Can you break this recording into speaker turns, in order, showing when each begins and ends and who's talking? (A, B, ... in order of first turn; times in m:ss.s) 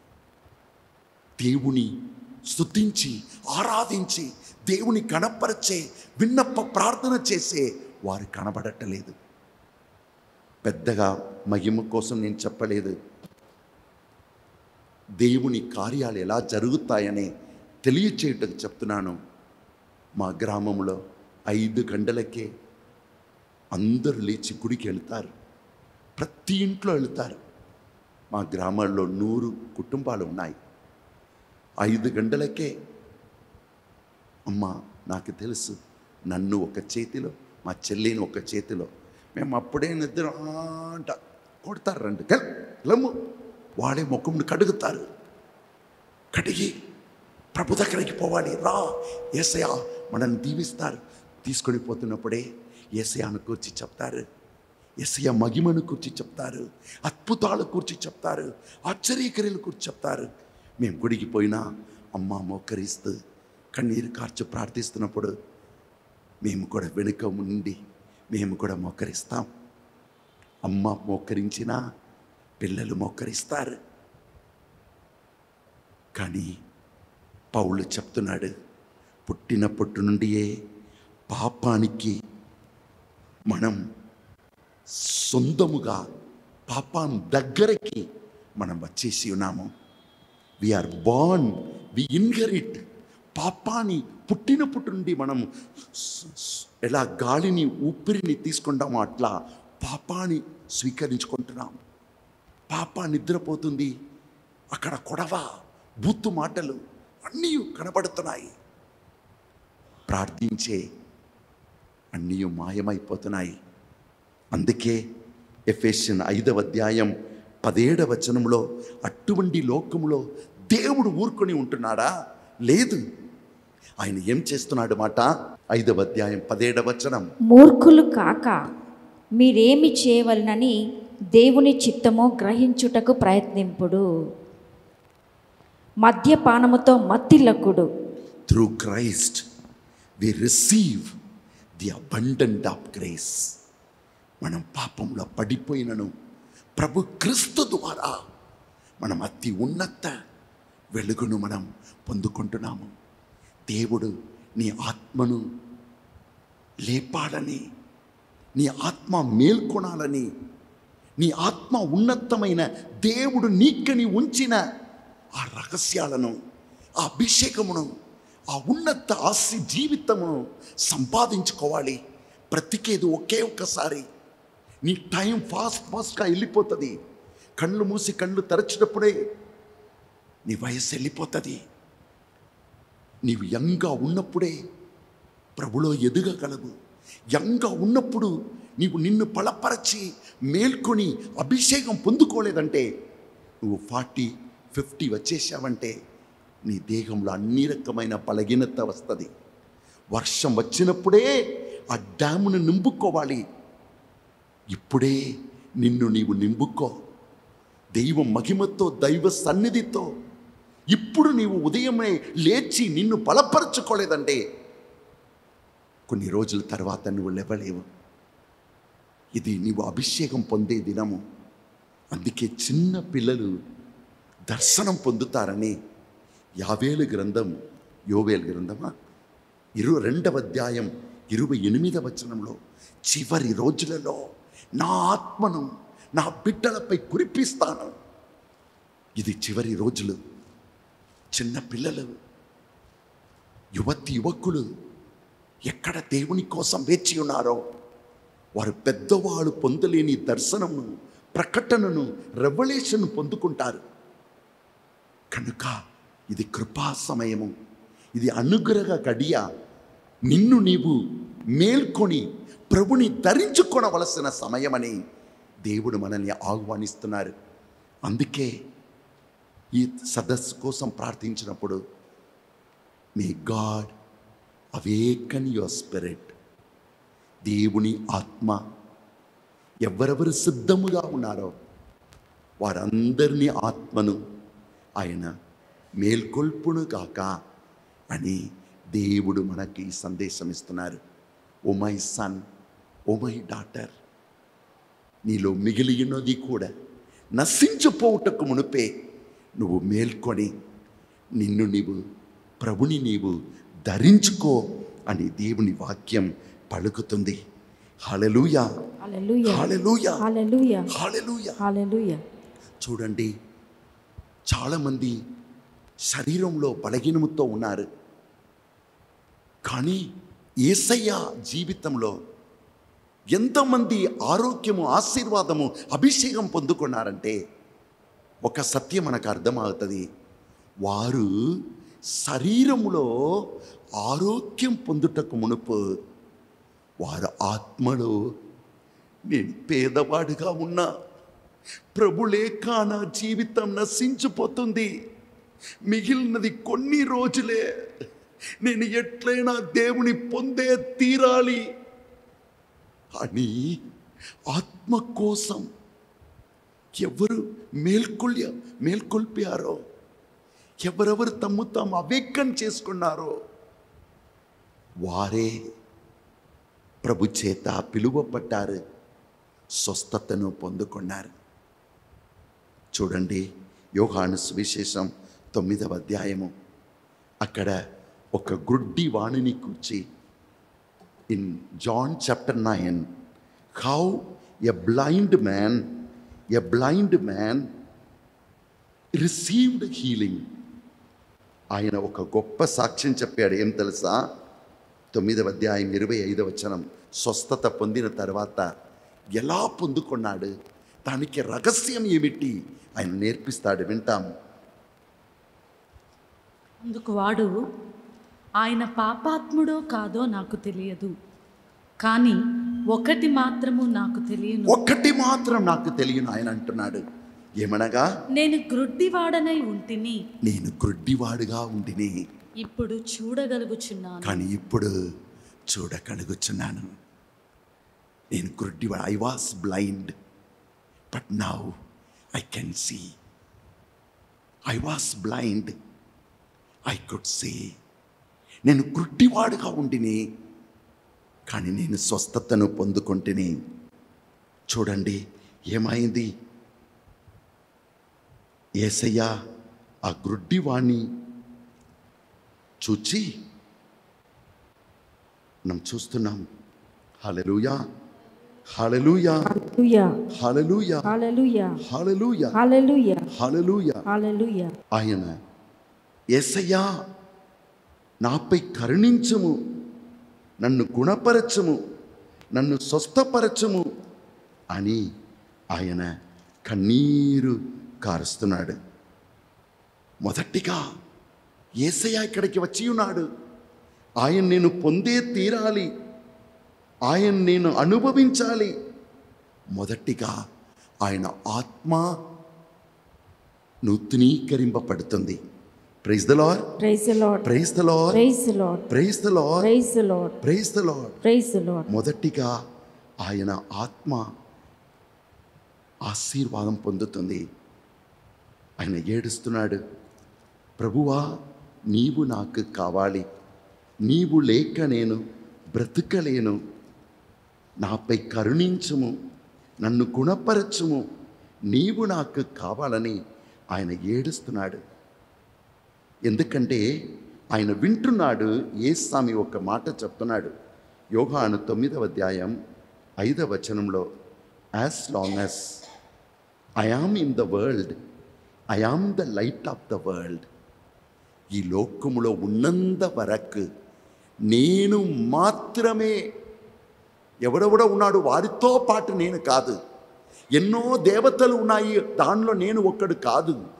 0:01.4-0:01.9 A
0:02.5-0:09.2 A
0:10.6-0:13.0 A
0:15.2-0:17.3 A
0:17.8-0:19.2 A
0:20.2-0:22.5 A
0:23.7-0:25.3 A
0:26.2-0:27.4 A
0:28.3-0:30.6 A
0:31.8-0:32.7 A
0:34.5-0:35.8 A
0:36.3-0:43.1 A
0:43.8-0:45.0 A
0:46.3-0:46.7 A
0:47.6-0:52.4 A
0:53.0-0:54.2 A
0:55.0-1:00.3 A
1:00.8-1:01.6 A
1:02.2-1:03.2 A
1:03.7-1:05.3 A
1:06.4-1:07.8 A
1:08.3-1:09.5 A
1:10.6-1:11.8 A
1:12.6-1:13.8 A
1:16.2-1:16.5 A
1:17.5-1:18.5 A
1:19.3-1:20.5 A
1:21.3-1:22.2 A
1:23.5-1:23.8 A
1:25.0-1:26.0 A
1:26.7-1:28.0 A
1:28.6-1:29.7 A
1:30.6-1:32.8 A
1:33.4-1:41.8 A
1:42.7-1:43.9 A
1:44.8-1:45.4 A
1:46.0-1:48.5 A
1:50.1-1:50.8 A
1:52.1-1:53.6 A
1:54.5-1:55.0 A
1:55.7-1:57.1 A
1:57.6-2:02.1 A
2:02.7-2:03.0 A
2:04.0-2:07.3 A
2:07.5-2:08.5 B
2:09.4-2:10.8 B
2:11.3-2:14.0 B
2:16.0-2:17.8 B
2:18.5-2:19.4 A
2:20.2-2:21.1 A
2:21.8-2:23.4 A
2:24.4-2:26.1 A
2:26.8-2:28.2 A
2:29.0-2:30.1 A
2:30.9-2:32.9 A
2:33.7-2:35.4 A
2:36.9-2:37.6 A
2:38.6-2:40.3 A
2:41.2-2:44.6 A
2:45.4-2:46.4 A
2:47.0-2:47.9 A
2:48.5-2:52.0 A
2:52.5-2:54.1 A
2:54.8-2:56.9 A
2:57.6-2:59.1 A
3:00.5-3:01.6 A
3:03.2-3:04.6 A
3:05.6-3:06.7 A
3:07.3-3:12.9 A
3:13.6-3:15.9 A
3:16.7-3:19.3 A
3:20.1-3:21.3 A
3:21.9-3:23.4 A
3:24.7-3:25.2 A
3:25.8-3:27.0 A
3:28.0-3:30.1 A
3:30.9-3:34.4 A
3:36.1-3:37.8 A
3:39.4-3:41.2 A
3:42.1-3:43.5 A
3:44.5-3:45.8 A
3:46.6-3:47.5 A
3:48.1-3:48.9 A
3:49.8-3:54.2 A
3:54.8-3:58.0 A
3:59.2-4:00.2 A
4:01.3-4:02.1 A
4:03.8-4:04.6 A
4:05.7-4:07.6 A
4:08.6-4:13.8 A
4:15.3-4:15.8 A
4:16.3-4:17.5 A
4:18.2-4:19.4 A
4:20.3-4:21.0 A
4:21.6-4:25.0 A
4:25.7-4:27.3 A
4:28.1-4:28.5 A
4:29.8-4:31.8 A
4:33.2-4:33.9 A
4:34.8-4:36.3 A
4:37.4-4:38.6 A
4:39.8-4:41.6 A
4:42.6-4:44.2 A
4:45.0-4:45.3 A
4:46.0-4:47.3 A
4:48.1-4:48.4 A
4:48.9-4:51.0 A
4:51.7-4:52.4 A
4:53.1-4:53.9 A
4:55.3-4:56.7 A
4:57.4-4:58.9 A
4:59.6-5:00.5 A
5:01.4-5:02.0 A
5:02.6-5:03.4 A
5:03.9-5:04.6 A
5:05.1-5:07.4 A
5:08.1-5:08.6 A
5:09.0-5:09.7 B
5:09.4-5:10.2 A
5:10.2-5:10.9 B
5:10.9-5:11.6 A
5:11.6-5:12.2 B
5:12.8-5:13.3 A
5:14.5-5:15.2 A
5:16.1-5:17.9 A
5:19.7-5:20.0 A
5:20.6-5:22.2 A
5:23.3-5:27.4 A
5:28.4-5:30.0 A
5:30.8-5:31.3 A
5:32.2-5:33.1 A
5:34.0-5:35.8 A
5:37.0-5:38.2 A
5:39.3-5:40.9 A
5:41.9-5:44.9 A
5:45.9-5:47.6 A
5:48.6-5:51.6 A
5:53.2-5:53.7 A
5:54.5-5:55.7 A
5:57.0-5:59.8 A
6:00.8-6:03.3 A
6:05.0-6:05.5 A
6:07.0-6:08.8 A
6:09.8-6:11.3 A
6:13.0-6:13.4 A
6:14.0-6:16.5 A
6:17.4-6:17.8 A
6:18.3-6:20.0 A
6:21.3-6:23.1 A
6:23.8-6:25.8 A
6:26.5-6:27.6 A
6:29.2-6:30.4 A
6:31.7-6:34.2 A
6:35.1-6:38.7 A
6:39.4-6:40.5 A
6:41.1-6:44.2 A
6:46.8-6:47.5 C
6:48.6-6:51.1 C
6:52.0-6:52.4 C
6:52.9-6:54.8 C
6:54.7-6:57.0 A
6:57.6-6:58.0 A
6:58.4-7:00.2 C
7:00.4-7:02.1 A
7:02.6-7:04.5 C
7:04.2-7:04.9 A
7:05.7-7:07.0 A
7:08.3-7:10.1 A
7:11.1-7:11.7 A
7:12.3-7:13.0 A
7:14.7-7:15.7 A
7:16.9-7:17.6 A
7:18.6-7:20.2 A
7:21.5-7:23.5 A
7:24.7-7:25.2 A
7:25.7-7:26.3 A
7:28.8-7:29.3 A
7:30.1-7:31.0 A
7:32.8-7:33.3 A
7:35.7-7:36.4 A
7:37.2-7:37.8 A
7:38.8-7:39.5 A
7:39.4-7:40.1 B
7:40.3-7:41.1 A
7:41.0-7:41.8 B
7:41.8-7:42.5 A
7:42.5-7:43.3 B
7:43.3-7:44.0 A
7:44.1-7:44.7 B
7:44.9-7:45.4 A
7:46.3-7:46.9 A
7:48.2-7:49.5 A
7:50.6-7:51.8 A
7:52.5-7:53.8 A
7:54.7-7:55.0 A
7:55.7-7:56.1 A
7:56.7-7:58.8 A
8:00.2-8:00.8 A
8:01.8-8:03.3 A
8:04.2-8:05.9 A
8:07.1-8:08.7 A
8:09.8-8:10.4 A
8:11.0-8:12.1 A
8:13.8-8:15.4 A
8:16.0-8:16.6 A
8:16.8-8:17.4 B
8:17.4-8:18.2 A
8:18.1-8:18.8 B
8:18.9-8:19.7 A
8:19.6-8:20.3 B
8:20.4-8:21.2 A
8:21.2-8:21.9 B
8:21.9-8:22.5 A
8:23.2-8:24.3 A
8:26.1-8:27.4 A
8:28.8-8:29.8 A
8:30.8-8:31.2 A
8:31.9-8:33.2 A
8:34.1-8:35.2 A
8:35.7-8:36.6 A
8:37.8-8:39.1 A
8:39.8-8:41.0 A
8:41.7-8:43.2 A
8:43.7-8:44.8 A
8:46.3-8:46.8 A
8:47.5-8:50.5 A
8:51.1-8:52.6 A
8:53.2-8:54.0 A
8:54.8-8:55.8 A
8:56.8-8:58.0 A
8:58.7-9:00.4 A
9:01.5-9:03.6 A
9:04.5-9:06.2 A
9:07.4-9:09.8 A
9:10.6-9:13.6 A